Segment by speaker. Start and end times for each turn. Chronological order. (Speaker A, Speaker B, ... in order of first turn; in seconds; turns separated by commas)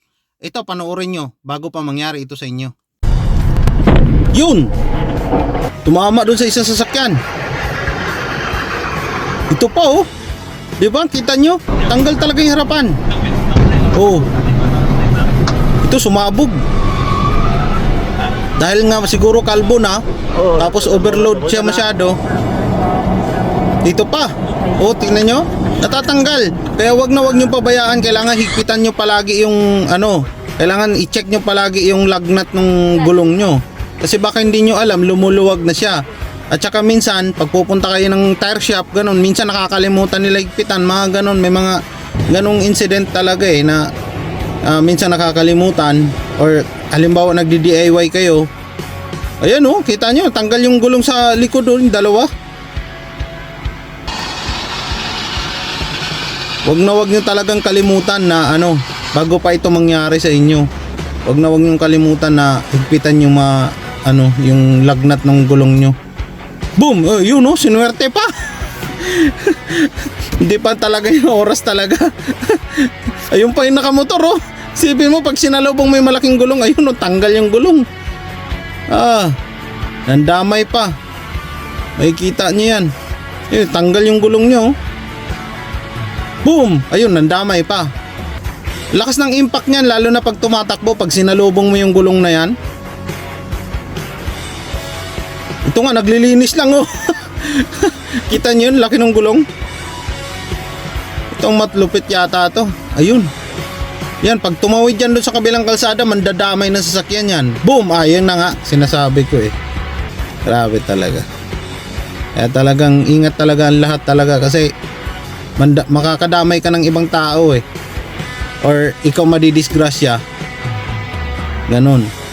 Speaker A: 0.4-2.7, Speaker A: 4.3-4.7, Speaker A: 5.8-7.2, Speaker A: 9.5-10.1, Speaker A: 10.8-12.9, Speaker A: 13.9-14.3, Speaker A: 15.8-16.6, Speaker A: 18.6-22.2, Speaker A: 23.8-43.9, Speaker A: 44.6-48.5, Speaker A: 49.4-52.3, Speaker A: 56.6-60.7, Speaker A: 61.2-66.0, Speaker A: 66.8-68.3, Speaker A: 68.8-77.8, Speaker A: 78.9-79.3, Speaker A: 80.1-80.9, Speaker A: 82.0-82.9, Speaker A: 83.5-84.7, Speaker A: 86.4-87.9, Speaker A: 88.9-92.5, Speaker A: 95.7-99.4, Speaker A: 101.3-103.3, Speaker A: 104.2-109.5, Speaker A: 110.4-111.2, Speaker A: 112.3-114.7, Speaker A: 115.6-117.6, Speaker A: 118.6-120.2, Speaker A: 121.7-122.1